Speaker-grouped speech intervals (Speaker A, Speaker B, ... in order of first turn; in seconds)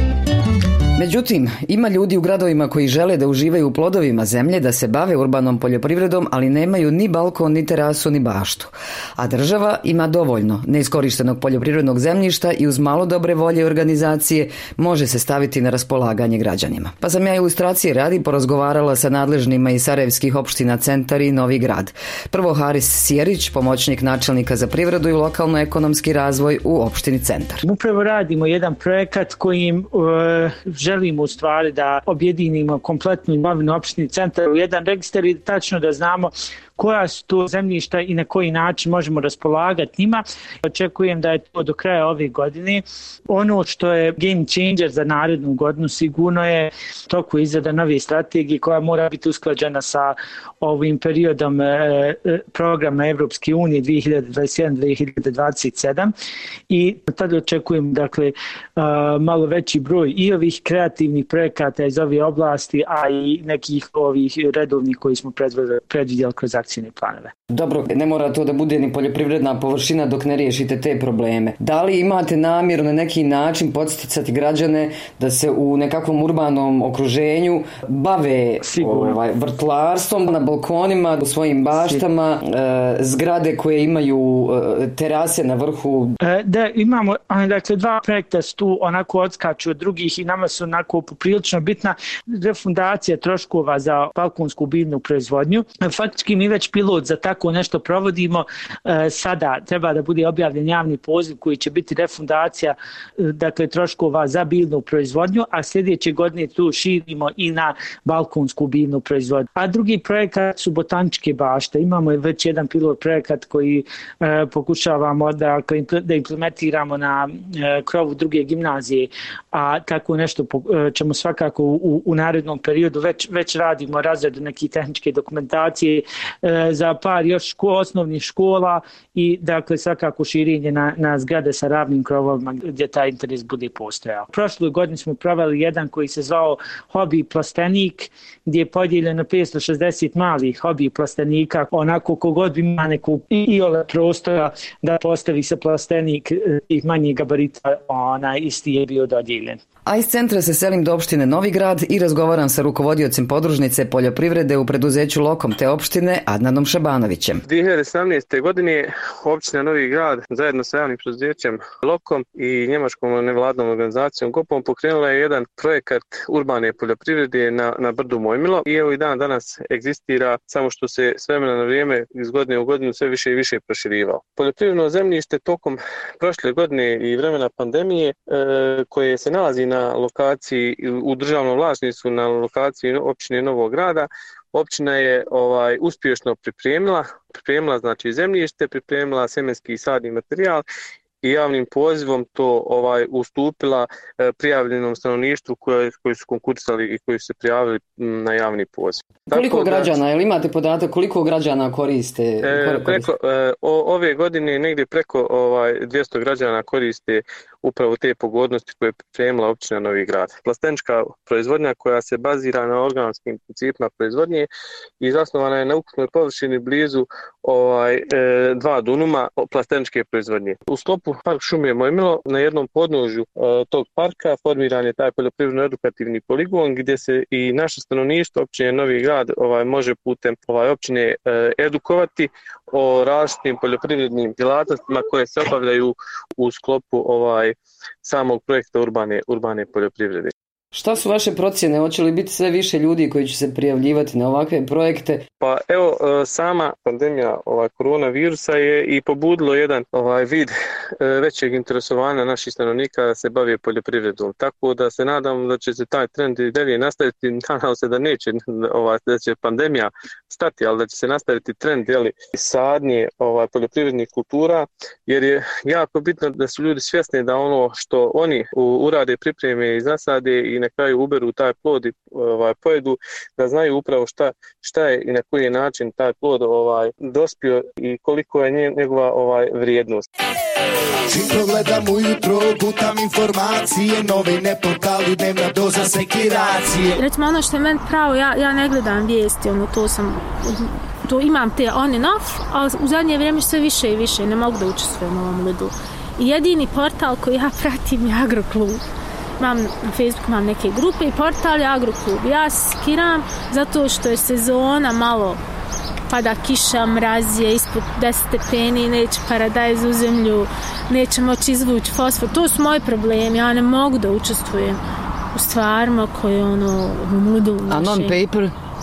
Speaker A: 1.0-27.6, 67.5-86.2, 149.9-157.4, 199.3-203.1, 240.7-245.2, 317.7-318.5
Speaker B: 27.6-56.1, 56.7-67.3, 78.7-79.2, 86.2-149.6
Speaker C: 157.5-190.7, 191.2-199.9, 202.4-214.5, 215.0-240.3, 245.4-280.0
Speaker D: 281.1-287.0
Speaker E: 287.0-298.8, 299.4-305.4, 306.1-314.8, 315.3-318.2